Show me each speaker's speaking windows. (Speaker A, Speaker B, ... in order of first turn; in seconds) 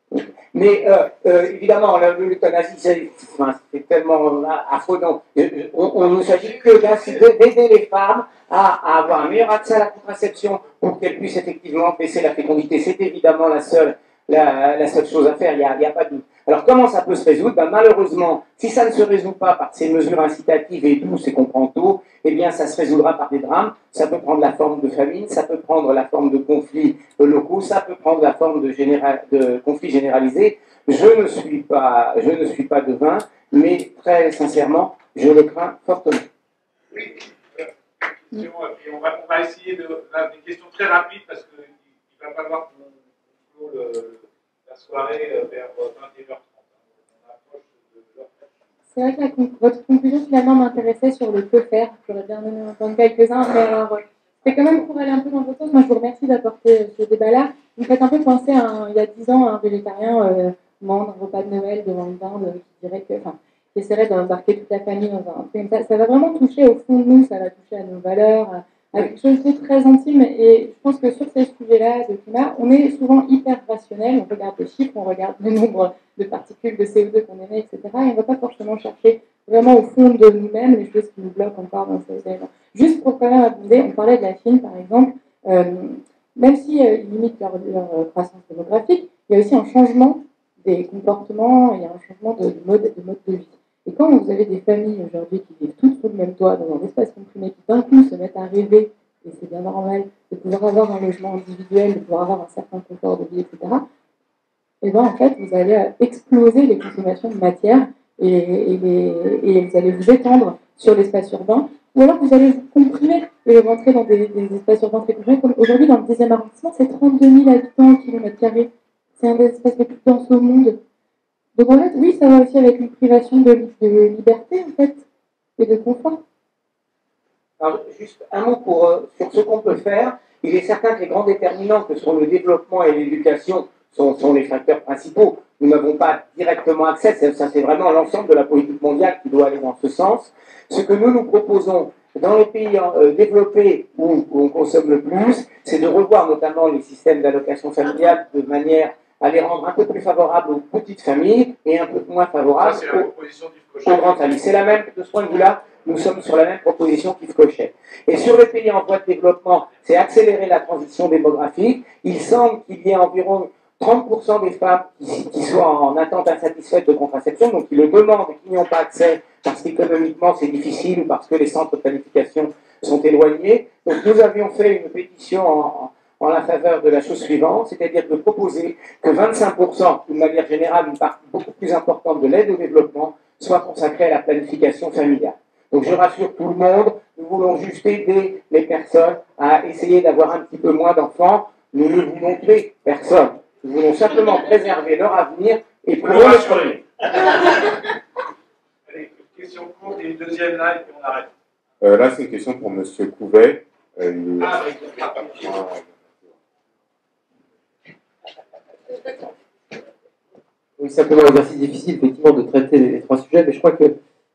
Speaker A: 0.2-36.3, 127.6-153.1, 153.8-196.8
Speaker B: 36.9-48.5, 152.6-154.2, 196.0-196.8, 198.8-201.3, 204.4-205.6
Speaker C: 48.9-103.8, 104.8-120.8, 121.5-125.0, 125.6-126.2
Speaker D: 201.8-204.7, 205.2-205.8
Speaker E: 210.8-213.9